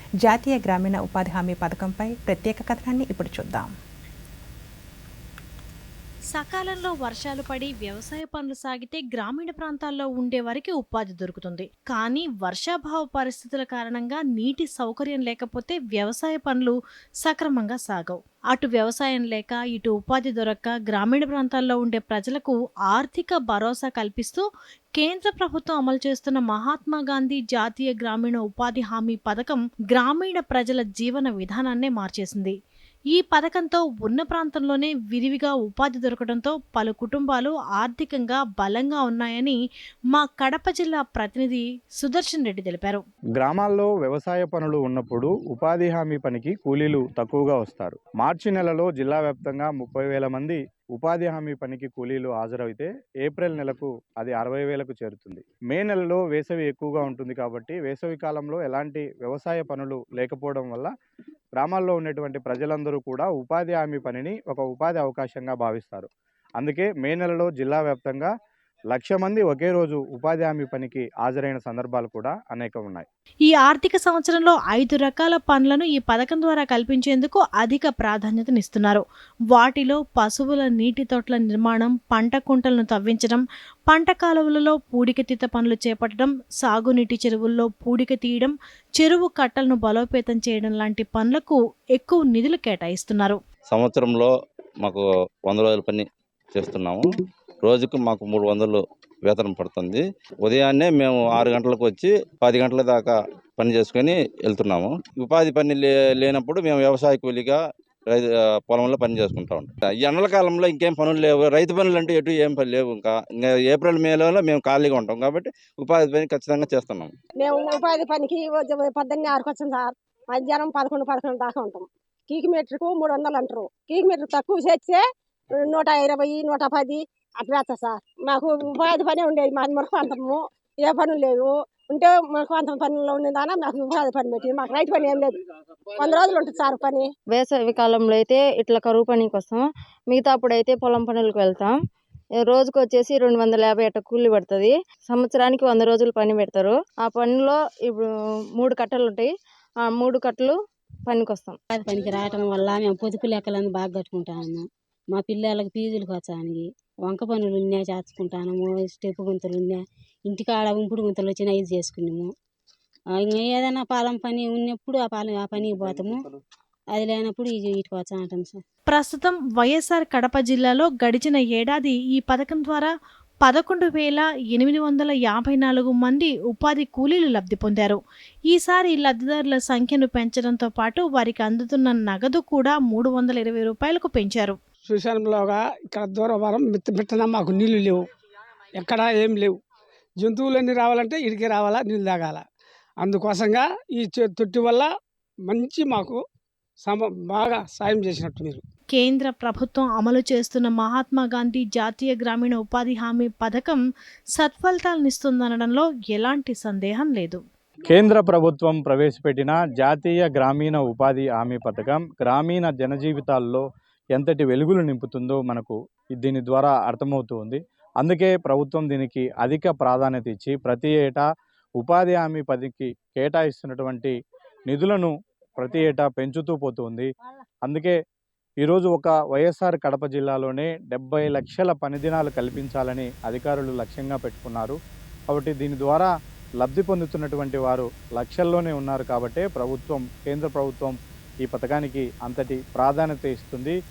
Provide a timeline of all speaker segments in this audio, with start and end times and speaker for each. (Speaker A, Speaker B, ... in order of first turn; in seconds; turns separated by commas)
Speaker A: 0.2-3.7, Speaker B: 6.3-32.6, Speaker B: 33.1-39.6, Speaker B: 40.1-43.0, Speaker C: 43.4-60.9, Speaker C: 61.6-68.3, Speaker C: 68.9-73.1, Speaker B: 73.5-93.4, Speaker D: 93.7-94.3, Speaker D: 94.8-97.0, Speaker D: 97.6-107.6, Speaker D: 108.1-117.1, Speaker E: 117.4-125.0, Speaker E: 125.6-135.4, Speaker E: 136.0-137.1, Speaker F: 137.3-141.8, Speaker F: 142.4-148.1, Speaker F: 148.6-149.3, Speaker F: 149.8-151.6, Speaker G: 151.7-162.3, Speaker G: 163.1-166.3, Speaker G: 166.9-168.6, Speaker B: 168.9-184.6, Speaker H: 184.9-188.1, Speaker H: 188.8-189.6, Speaker H: 190.2-192.4, Speaker H: 193.0-194.9, Speaker H: 195.5-196.2, Speaker H: 196.8-198.6, Speaker B: 198.9-203.8, Speaker B: 204.3-207.4, Speaker C: 207.9-213.6, Speaker C: 214.2-221.2, Speaker C: 221.8-224.2, Speaker C: 224.7-227.1, Speaker C: 227.7-228.0, Speaker C: 228.6-234.8, Speaker C: 235.3-243.8